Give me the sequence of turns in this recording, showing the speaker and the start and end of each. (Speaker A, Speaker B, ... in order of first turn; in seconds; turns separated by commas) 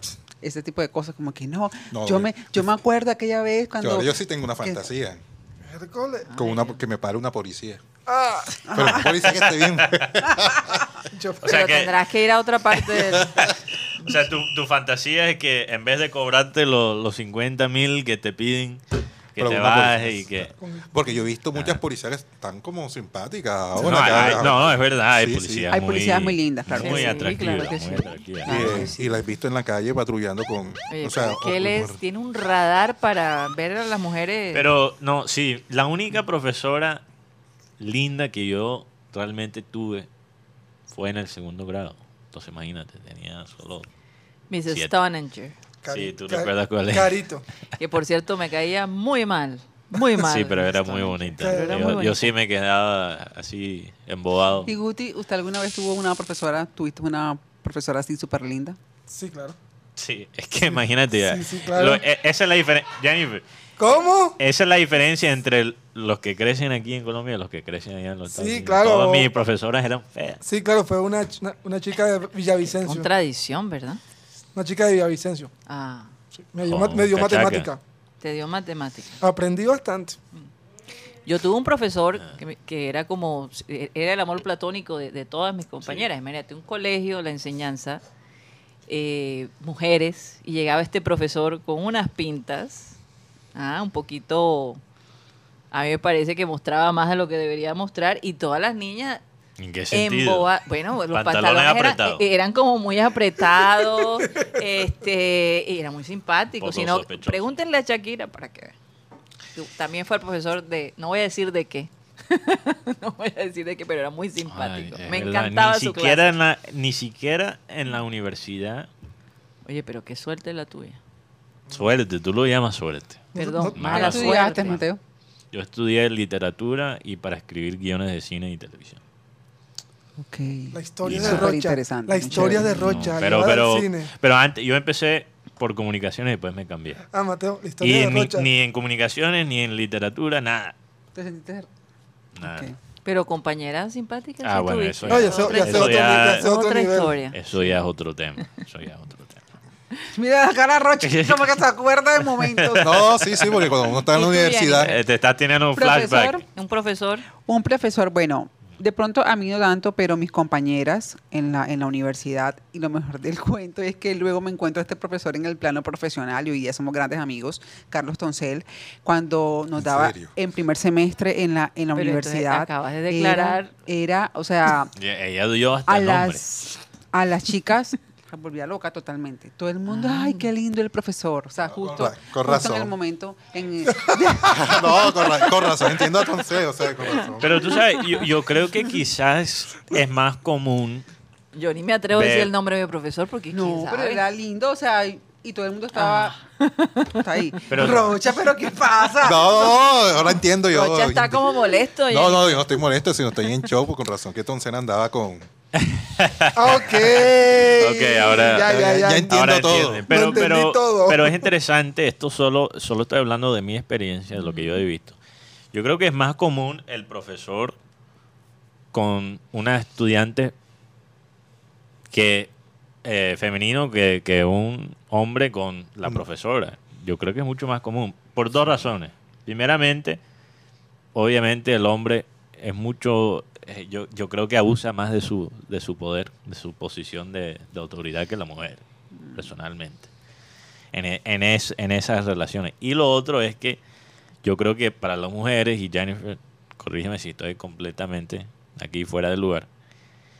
Speaker A: 0.4-4.8, Speaker B: 1.9-2.6, Speaker B: 3.8-5.2, Speaker C: 5.7-6.3, Speaker D: 6.3-6.8, Speaker B: 6.4-7.8, Speaker C: 8.1-8.7, Speaker A: 8.7-9.1, Speaker B: 8.7-10.8, Speaker E: 9.2-10.1, Speaker C: 11.1-11.6, Speaker E: 11.4-12.0, Speaker D: 11.4-13.4, Speaker E: 13.1-18.8, Speaker E: 19.4-20.5, Speaker B: 19.4-25.7, Speaker C: 20.6-20.9, Speaker E: 23.8-28.8, Speaker A: 25.7-27.1, Speaker D: 26.8-29.2, Speaker B: 28.5-32.0, Speaker A: 28.5-28.9, Speaker D: 30.9-34.7, Speaker E: 34.5-37.0, Speaker E: 37.8-40.1, Speaker E: 40.9-43.9, Speaker D: 44.5-45.6, Speaker C: 45.8-47.5, Speaker E: 45.9-47.2, Speaker D: 47.8-52.3, Speaker E: 50.2-54.7, Speaker C: 51.4-52.0, Speaker A: 54.7-58.8, Speaker C: 59.1-59.5, Speaker E: 60.0-63.4, Speaker C: 60.7-62.0, Speaker C: 63.8-64.4, Speaker E: 64.4-70.4, Speaker C: 68.3-69.3, Speaker C: 70.4-73.1, Speaker D: 72.7-74.0, Speaker C: 74.5-75.5, Speaker D: 75.7-76.1, Speaker C: 76.4-77.8, Speaker E: 76.7-77.7, Speaker D: 78.2-79.2, Speaker C: 79.2-80.2, Speaker D: 81.3-88.0, Speaker D: 88.9-93.0, Speaker D: 93.5-94.8, Speaker D: 95.7-99.2, Speaker E: 99.6-100.5, Speaker D: 99.9-108.7, Speaker E: 101.1-102.2, Speaker E: 106.6-107.5, Speaker D: 109.5-116.4, Speaker E: 114.5-118.9, Speaker D: 119.7-121.0, Speaker E: 121.7-124.8, Speaker C: 123.3-123.9, Speaker D: 123.4-124.8, Speaker A: 123.9-125.0, Speaker E: 125.5-129.0, Speaker A: 130.2-133.0, Speaker C: 130.7-134.1, Speaker E: 131.0-131.5, Speaker E: 132.7-137.0, Speaker C: 137.1-138.5, Speaker E: 137.8-140.7, Speaker A: 141.2-141.7, Speaker E: 142.4-142.7, Speaker A: 142.4-142.8, Speaker D: 143.1-147.4, Speaker E: 144.4-146.5, Speaker C: 145.1-147.2, Speaker E: 147.3-149.4, Speaker A: 150.1-153.2, Speaker E: 151.0-151.6, Speaker E: 152.2-153.7, Speaker B: 152.8-154.9, Speaker D: 154.1-155.0, Speaker E: 154.8-156.4, Speaker A: 155.8-156.4, Speaker D: 156.6-157.2, Speaker A: 157.4-174.9, Speaker B: 169.8-170.3, Speaker D: 171.9-173.7, Speaker E: 174.9-176.4, Speaker A: 175.9-185.7, Speaker D: 179.9-180.5, Speaker B: 181.6-182.9, Speaker B: 184.7-187.6, Speaker E: 187.4-191.1, Speaker D: 191.5-194.2, Speaker E: 192.1-192.5, Speaker A: 193.5-196.4, Speaker D: 195.9-197.2, Speaker A: 197.1-199.8, Speaker E: 197.7-198.2, Speaker B: 199.2-201.6, Speaker D: 200.7-202.8, Speaker B: 202.1-205.5, Speaker E: 205.8-215.2, Speaker C: 206.5-209.4, Speaker B: 208.7-210.1, Speaker C: 210.1-211.5, Speaker D: 214.3-214.8, Speaker E: 215.7-217.8, Speaker E: 218.9-220.5, Speaker E: 222.1-222.5, Speaker E: 223.0-230.2, Speaker E: 231.2-238.8, Speaker E: 239.3-240.1, Speaker E: 240.9-243.8, Speaker E: 244.4-249.7